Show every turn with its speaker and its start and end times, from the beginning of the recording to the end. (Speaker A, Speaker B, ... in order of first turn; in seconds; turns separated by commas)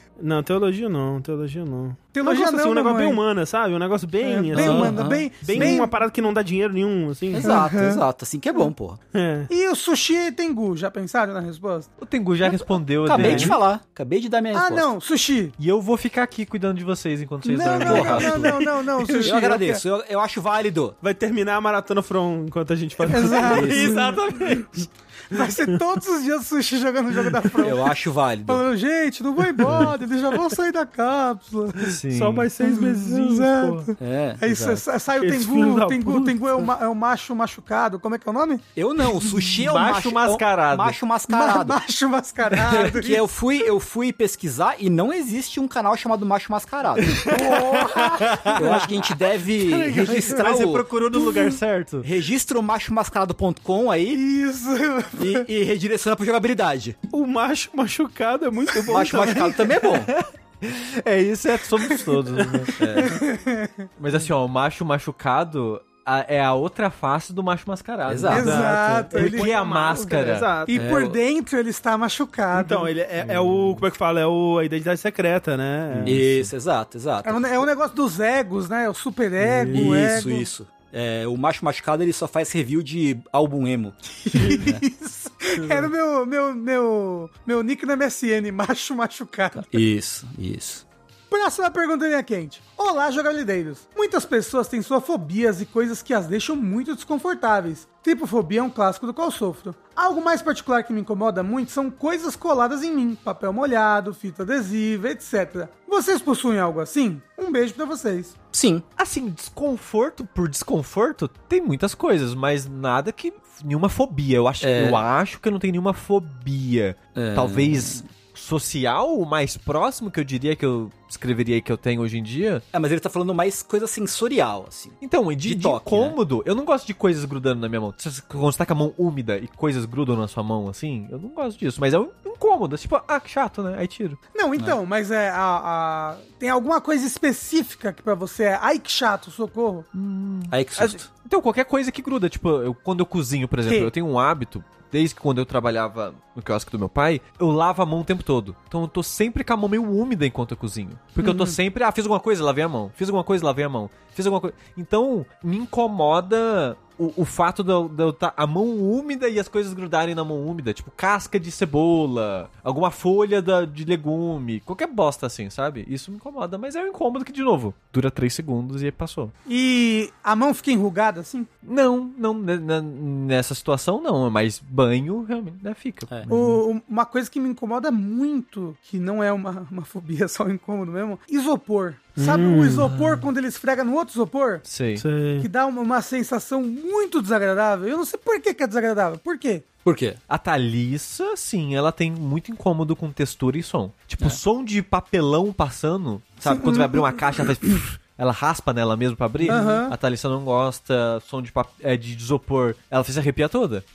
Speaker A: 0.2-7.5, Speaker B: 2.1-3.2, Speaker B: 4.2-5.9, Speaker C: 4.5-5.8, Speaker C: 7.3-9.0, Speaker B: 7.4-8.0, Speaker A: 9.1-9.5, Speaker B: 9.5-11.9, Speaker D: 12.0-13.6, Speaker C: 13.1-14.9, Speaker A: 13.1-13.6, Speaker B: 14.5-15.6, Speaker D: 15.6-18.7, Speaker B: 17.4-19.8, Speaker C: 17.8-18.6, Speaker C: 19.2-21.0, Speaker A: 21.0-24.5, Speaker B: 23.1-24.2, Speaker D: 23.4-24.8, Speaker C: 23.4-23.9, Speaker B: 25.3-27.9, Speaker C: 27.6-28.6, Speaker B: 28.4-31.9, Speaker A: 29.6-29.9, Speaker D: 31.8-32.5, Speaker A: 32.1-33.9, Speaker B: 32.6-38.6, Speaker C: 34.0-34.8, Speaker A: 35.2-36.4, Speaker C: 38.8-41.8, Speaker D: 39.5-41.0, Speaker B: 41.3-43.3, Speaker C: 42.6-47.3, Speaker D: 47.0-49.0, Speaker B: 47.3-48.9, Speaker C: 48.5-50.9, Speaker B: 49.6-50.5, Speaker D: 49.8-52.1, Speaker B: 51.1-51.6, Speaker C: 52.0-54.2, Speaker B: 54.1-55.5, Speaker C: 55.2-57.0, Speaker A: 57.1-59.7, Speaker C: 58.9-60.1, Speaker D: 59.9-63.1, Speaker A: 62.4-62.7, Speaker C: 62.8-63.2, Speaker B: 63.0-63.9, Speaker D: 64.0-70.5, Speaker C: 68.1-68.7, Speaker B: 68.3-72.9, Speaker A: 68.3-70.8, Speaker C: 70.7-71.2, Speaker A: 72.5-76.2, Speaker D: 73.2-73.8, Speaker D: 75.9-76.5, Speaker C: 76.0-77.7, Speaker B: 77.2-80.5, Speaker A: 79.4-80.1, Speaker C: 79.7-84.8, Speaker B: 84.2-89.7, Speaker A: 85.6-85.9, Speaker C: 89.5-90.8, Speaker B: 91.3-108.4, Speaker C: 108.5-108.8, Speaker D: 109.0-122.6, Speaker C: 114.6-115.0, Speaker C: 117.1-118.0, Speaker C: 122.7-126.2, Speaker D: 125.0-134.2, Speaker B: 134.3-139.9, Speaker D: 139.9-169.3, Speaker C: 140.5-141.1, Speaker B: 151.2-151.6, Speaker B: 169.5-171.5, Speaker D: 171.6-176.5, Speaker B: 176.3-184.6, Speaker A: 182.2-182.9, Speaker D: 182.9-183.2, Speaker D: 184.6-185.1, Speaker A: 185.0-185.5, Speaker B: 185.4-189.6, Speaker C: 189.8-190.2, Speaker D: 190.3-203.8, Speaker B: 196.4-197.8, Speaker A: 199.4-199.8, Speaker B: 199.5-199.9